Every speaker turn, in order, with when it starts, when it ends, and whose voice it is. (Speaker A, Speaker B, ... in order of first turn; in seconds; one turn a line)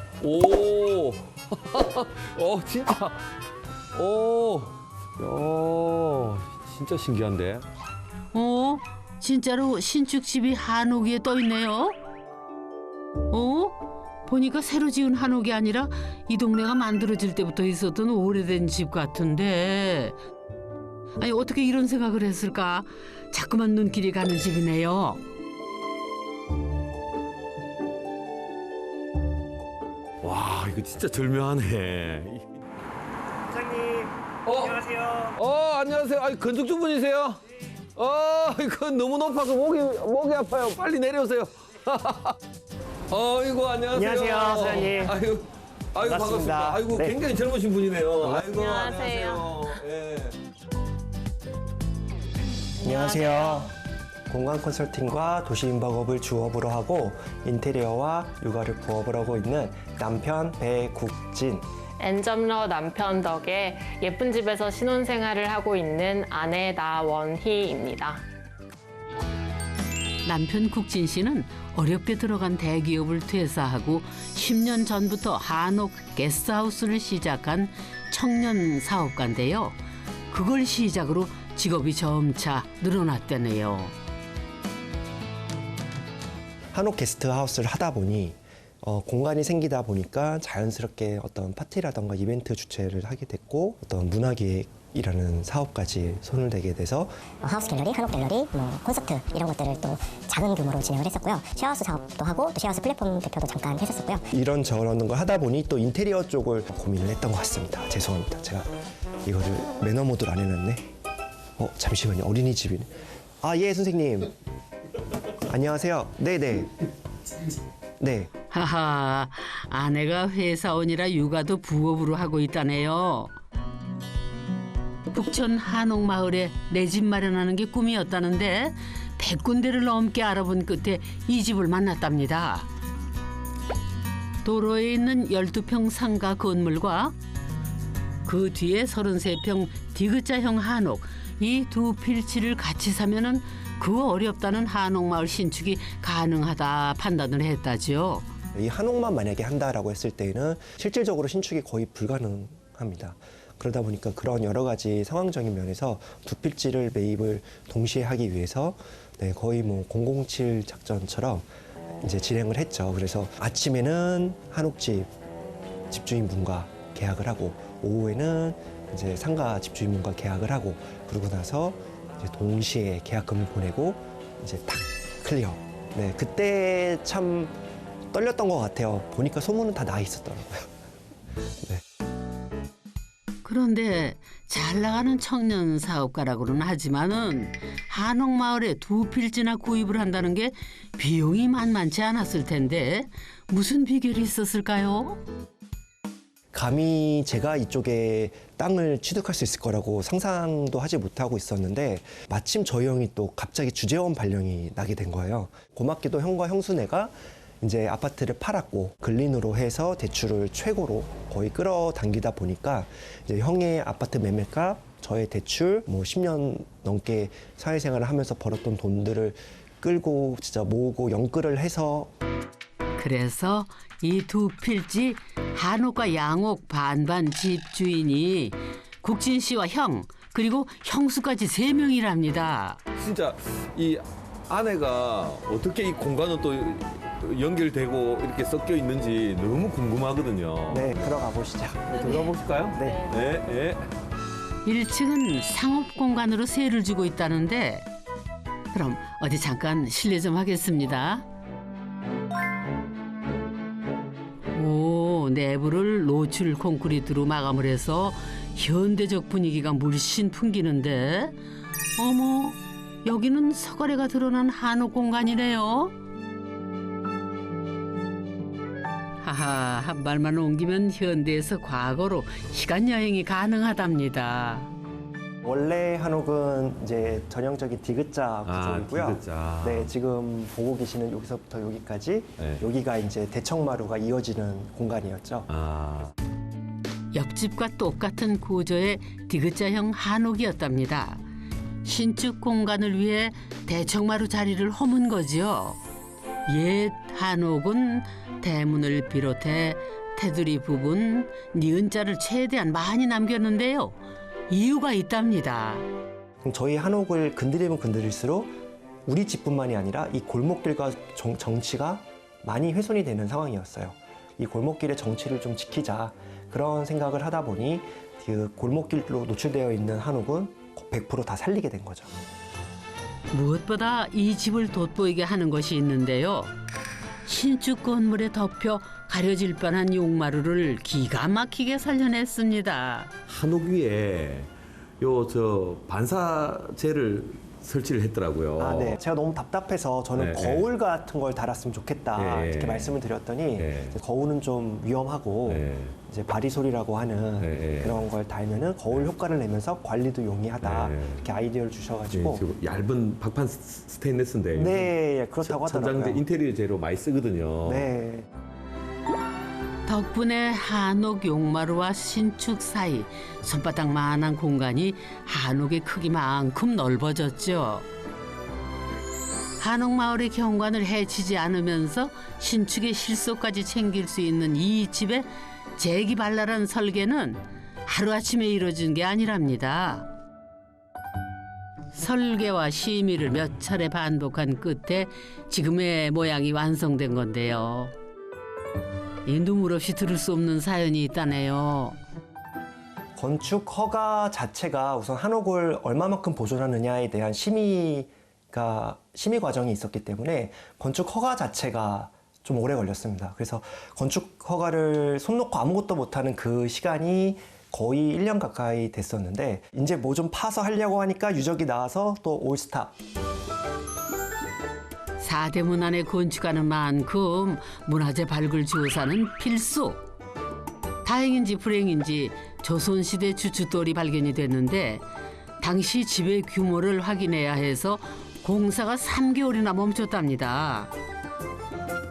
Speaker A: 0.2-3.2
Speaker A: 4.0-7.7
Speaker B: 8.3-12.0
Speaker B: 13.3-20.2
Speaker B: 21.2-25.2
Speaker A: 30.2-32.6
Speaker C: 33.5-35.4
Speaker A: 34.5-34.8
Speaker A: 35.4-37.4
Speaker A: 38.0-42.4
Speaker A: 43.1-50.4
Speaker C: 43.9-45.2
Speaker C: 46.0-47.2
Speaker D: 48.4-49.6
Speaker D: 52.8-53.7
Speaker C: 52.8-53.7
Speaker C: 54.3-61.7
Speaker D: 62.0-68.2
Speaker B: 70.2-79.8
Speaker B: 80.3-84.0
Speaker C: 86.7-97.2
Speaker E: 97.4-104.3
Speaker C: 104.3-108.7
Speaker C: 109.2-110.9
Speaker C: 111.6-114.3
Speaker C: 115.5-116.7
Speaker C: 118.0-118.3
Speaker B: 118.5-123.3
Speaker B: 125.1-132.7
Speaker B: 134.4-137.2
Speaker B: 138.3-148.3
Speaker C: 148.5-161.5
Speaker C: 162.0-165.1
Speaker C: 165.9-177.6
Speaker C: 178.1-180.7
Speaker B: 183.4-195.2
Speaker C: 196.5-222.1
Speaker B: 223.0-232.8
Speaker A: 232.9-241.1
Speaker C: 240.7-243.1
Speaker A: 241.9-243.9
Speaker D: 241.9-242.3
Speaker D: 242.8-243.1
Speaker B: 244.7-247.9
Speaker B: 248.7-251.2
Speaker B: 254.5-261.4
Speaker B: 262.0-265.9
Speaker B: 269.2-274.7
Speaker C: 275.4-285.5
Speaker A: 278.5-279.9
Speaker A: 282.4-282.6
Speaker A: 285.5-286.1
Speaker B: 287.1-291.2
Speaker B: 291.8-295.8
Speaker B: 296.5-304.0
Speaker B: 304.5-305.9
Speaker C: 306.4-308.6
Speaker C: 309.1-322.2
Speaker B: 323.3-326.5
Speaker B: 327.3-333.1
Speaker A: 333.3-339.0
Speaker C: 338.6-352.4
Speaker A: 340.2-340.6
Speaker A: 342.2-342.9
Speaker A: 343.6-343.9
Speaker A: 345.5-345.9
Speaker A: 347.4-348.0
Speaker A: 350.6-351.2
Speaker A: 352.1-354.9
Speaker C: 354.6-356.2
Speaker A: 355.4-357.9
Speaker C: 357.6-358.3
Speaker B: 359.9-367.9
Speaker B: 369.6-380.1
Speaker B: 381.9-387.9
Speaker B: 389.2-392.0
Speaker C: 393.2-412.9
Speaker B: 415.2-420.0
Speaker B: 421.0-425.0
Speaker B: 425.6-430.9